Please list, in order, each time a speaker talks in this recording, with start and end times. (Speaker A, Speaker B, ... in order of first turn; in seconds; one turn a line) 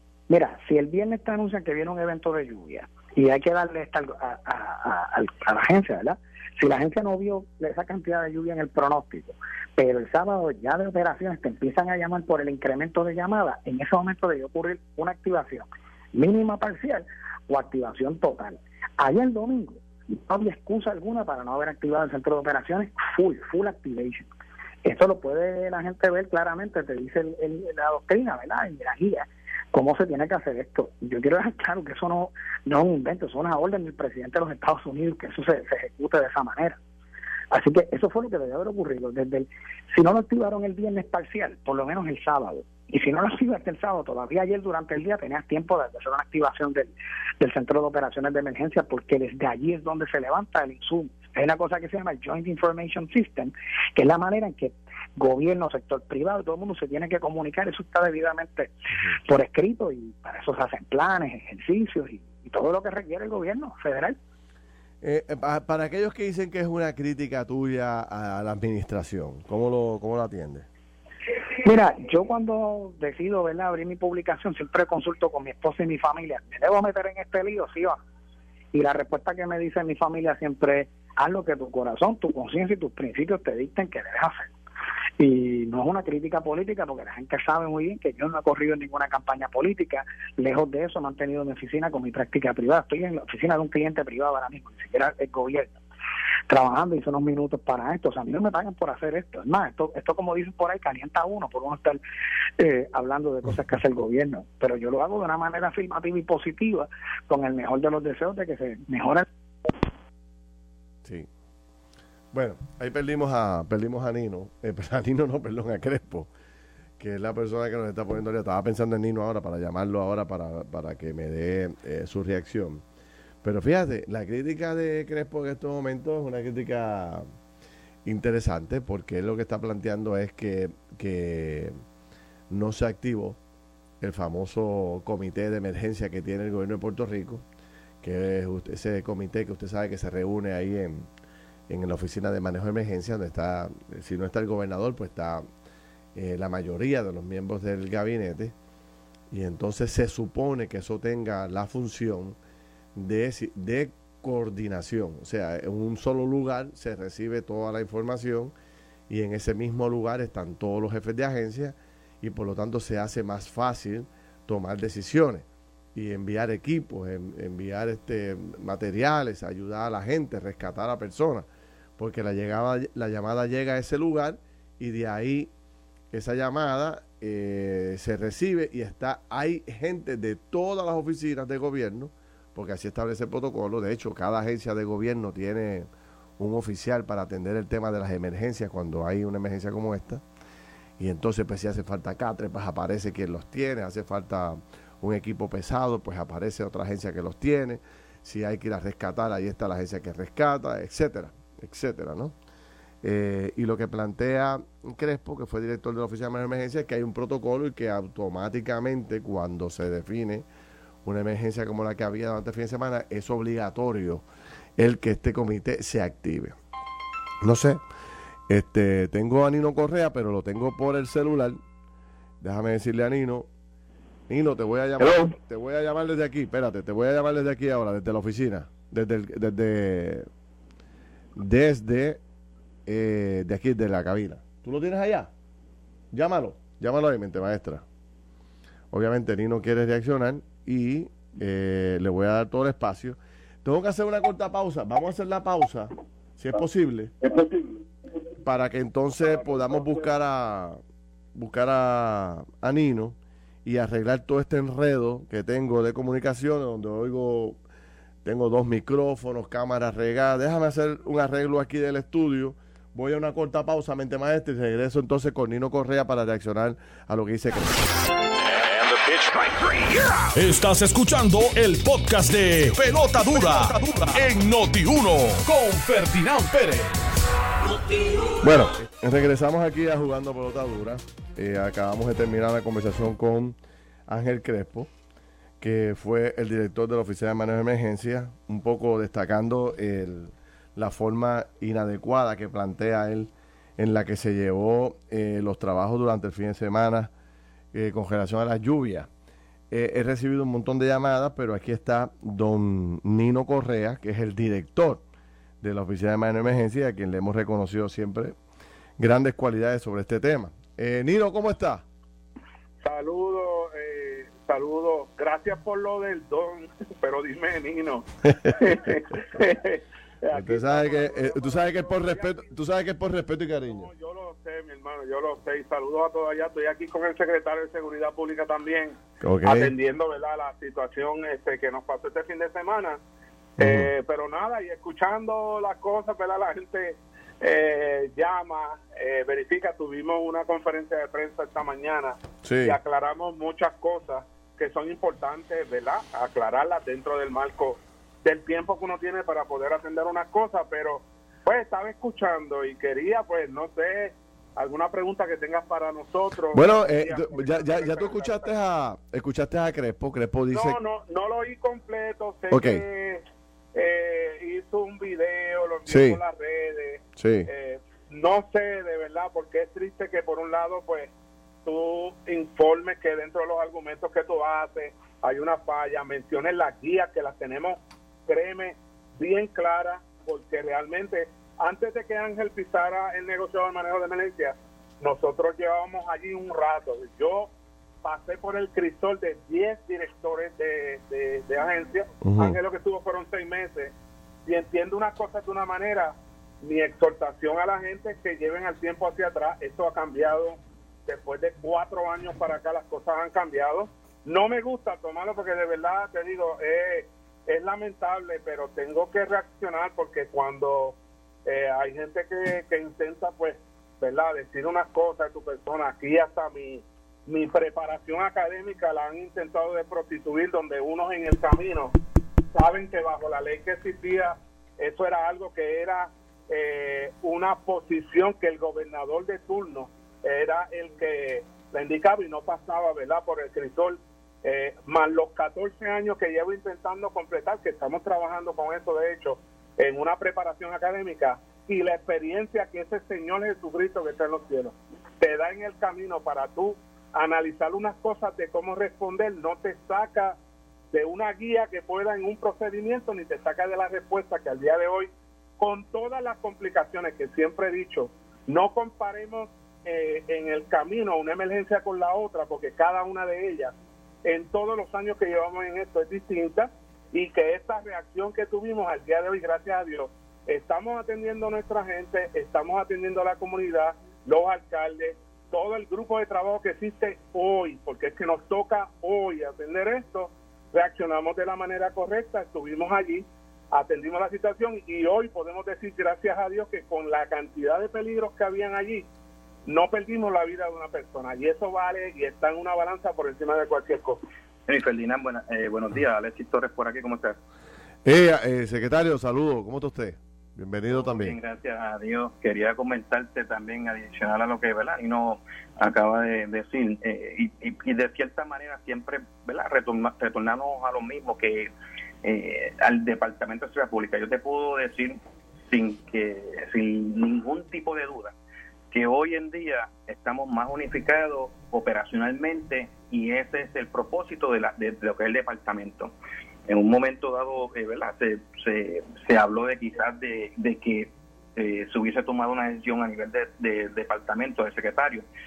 Speaker A: 0.3-24.3
Speaker A: 24.9-36.8
Speaker A: 37.5-64.2
Speaker B: 65.0-70.7
Speaker A: 71.6-78.0
Speaker A: 78.7-84.5
Speaker A: 85.2-95.8
Speaker A: 96.5-102.0
Speaker A: 102.6-109.2
Speaker B: 112.3-116.3
Speaker B: 117.0-122.8
Speaker B: 123.4-127.2
Speaker B: 128.0-131.8
Speaker B: 132.5-133.4
Speaker B: 134.0-137.4
Speaker B: 138.0-141.1
Speaker B: 141.7-145.4
Speaker B: 146.2-148.5
Speaker B: 149.3-152.4
Speaker B: 152.9-158.5
Speaker B: 159.1-171.5
Speaker B: 172.0-175.5
Speaker B: 176.1-190.2
Speaker B: 191.0-202.3
Speaker B: 203.0-210.4
Speaker B: 211.0-214.2
Speaker B: 214.8-216.6
Speaker B: 217.4-217.8
Speaker B: 218.5-221.6
Speaker B: 222.4-223.5
Speaker B: 224.3-230.3
Speaker B: 231.4-232.2
Speaker B: 232.9-235.3
Speaker B: 236.1-237.8
Speaker B: 238.9-247.1
Speaker B: 248.4-250.8
Speaker B: 251.3-257.6
Speaker B: 258.2-267.8
Speaker C: 270.3-276.9
Speaker B: 278.4-283.6
Speaker B: 284.1-284.9
Speaker B: 285.6-297.1
Speaker B: 297.7-299.1
Speaker B: 299.7-305.0
Speaker B: 305.6-308.4
Speaker B: 309.0-311.8
Speaker D: 312.8-322.5
Speaker B: 318.5-318.8
Speaker B: 320.3-323.9
Speaker D: 323.7-333.0
Speaker B: 329.2-329.7
Speaker B: 333.6-333.9
Speaker D: 333.6-358.5
Speaker B: 342.4-342.8
Speaker B: 356.5-360.8
Speaker D: 360.5-371.1
Speaker B: 362.5-362.8
Speaker B: 365.9-366.2
Speaker B: 367.2-367.5
Speaker D: 371.6-387.5
Speaker D: 388.0-393.9
Speaker B: 392.2-392.6
Speaker D: 394.5-422.0
Speaker D: 422.5-450.4
Speaker D: 450.9-463.7
Speaker D: 464.2-489.1
Speaker D: 489.6-494.2
Speaker E: 494.7-497.4
Speaker B: 498.0-501.4
Speaker E: 500.9-511.7
Speaker E: 512.2-515.2
Speaker E: 515.7-518.4
Speaker E: 518.9-526.1
Speaker E: 526.7-535.2